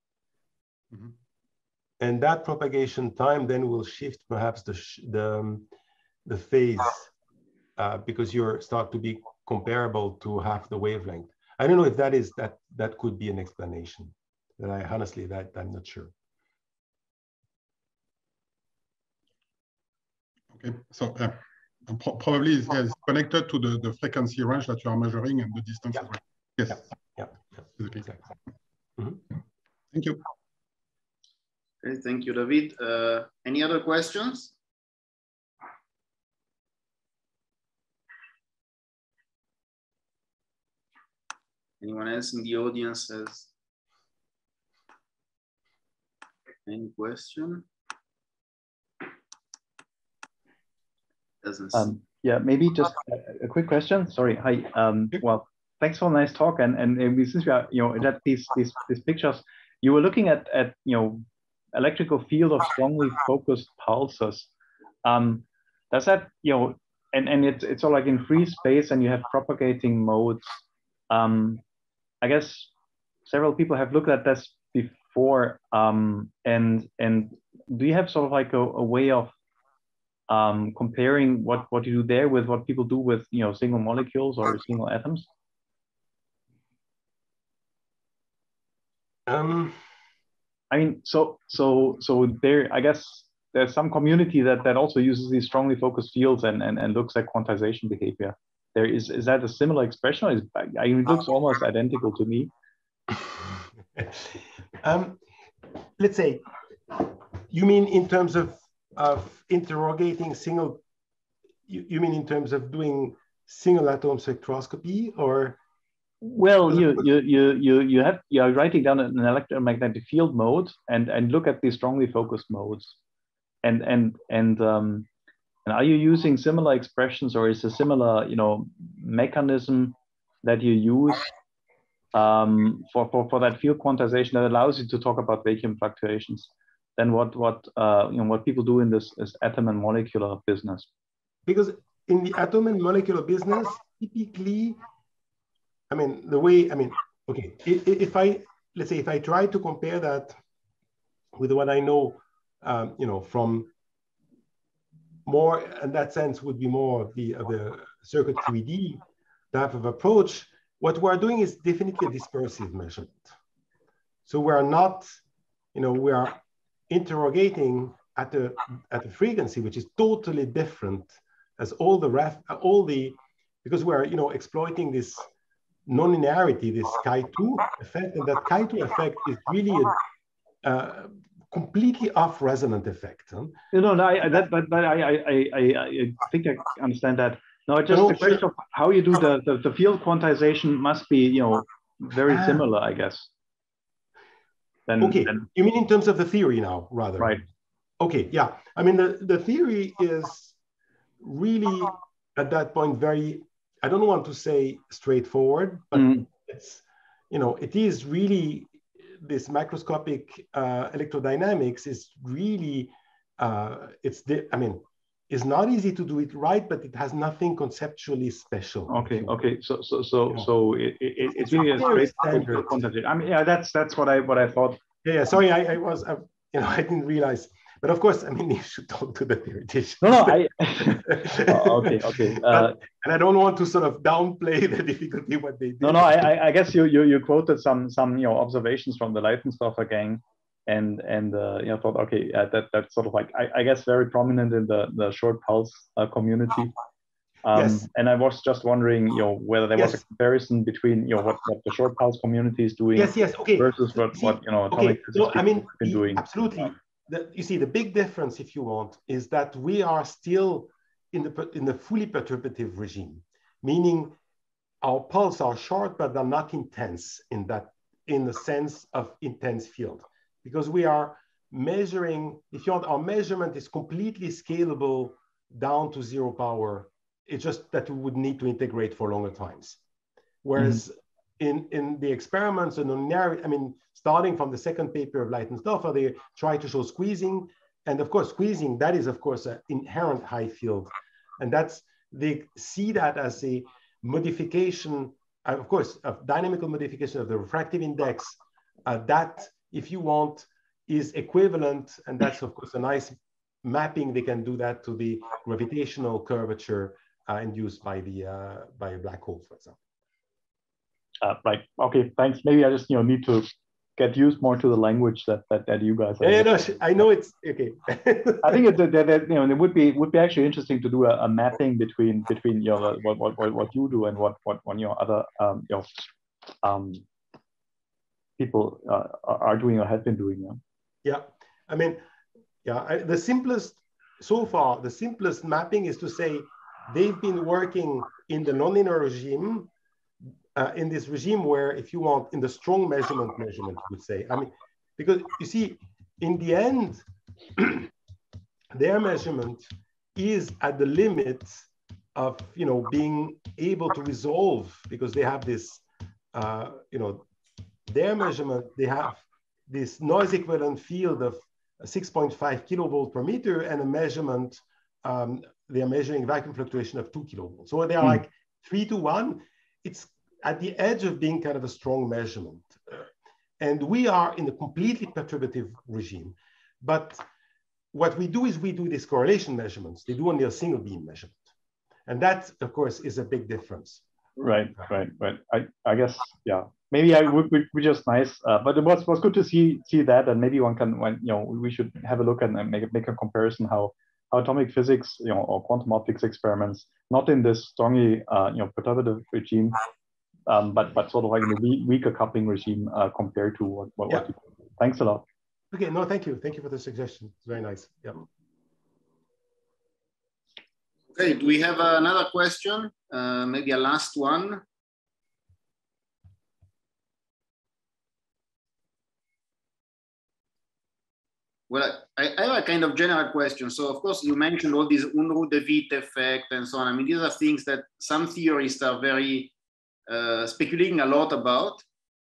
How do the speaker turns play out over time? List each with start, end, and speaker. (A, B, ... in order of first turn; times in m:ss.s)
0:02.0-0:05.7 A
0:06.2-0:07.1 A
0:07.8-0:16.1 A
0:20.5-0:26.9 B
0:27.8-0:28.2 B
0:29.9-0:30.2 B
0:31.8-0:34.5 C
0:41.8-0:43.5 C
0:46.6-0:47.6 C
0:51.4-0:51.9 C
0:51.7-1:04.5 D
1:05.0-1:10.6 D
1:11.1-1:11.6 D
1:12.2-1:12.7 D
1:13.2-1:19.3 D
1:20.3-1:25.3 D
1:29.3-1:29.8 A
1:30.7-1:42.5 D
1:44.8-1:45.2 A
1:46.0-1:50.8 A
1:51.7-1:55.6 A
1:56.2-2:03.0 D
2:03.6-2:05.0 D
2:05.6-2:11.2 D
2:12.1-2:20.9 D
2:21.5-2:24.8 A
2:25.9-2:30.4 A
2:31.4-2:33.7 A
2:35.2-2:43.3 A
2:44.3-2:45.2 A
2:45.7-2:46.4 A
2:46.9-2:55.3 A
2:55.9-3:00.0 A
3:00.6-3:03.5 A
3:03.7-3:13.3 D
3:07.9-3:08.4 A
3:12.3-3:12.6 A
3:14.9-3:15.4 D
3:15.0-3:17.4 A
3:18.0-3:20.5 A
3:21.2-3:39.3 A
3:26.0-3:26.2 D
3:38.9-3:44.8 D
3:41.3-3:42.8 A
3:45.0-3:56.2 A
3:50.0-3:52.8 D
3:55.8-4:06.7 D
4:07.4-4:16.2 D
4:07.5-4:07.9 A
4:13.0-4:24.2 A
4:24.8-4:39.8 A
4:40.4-5:09.8 A
5:11.2-5:16.5 D
5:16.2-5:18.6 A
5:18.4-5:26.0 D
5:26.6-5:27.0 D
5:28.4-5:30.6 D
5:31.0-5:32.0 A
5:32.6-5:39.7 A
5:40.5-5:47.0 A
5:47.6-5:47.9 A
5:48.7-5:57.3 A
5:57.9-6:13.1 A
6:13.6-6:17.2 A
6:17.9-6:21.4 A
6:22.1-6:24.0 A
6:24.4-6:39.8 D
6:40.5-6:45.2 D
6:45.7-6:48.2 A
6:51.1-6:54.6 C
7:01.7-7:09.5 C
7:10.1-7:11.8 C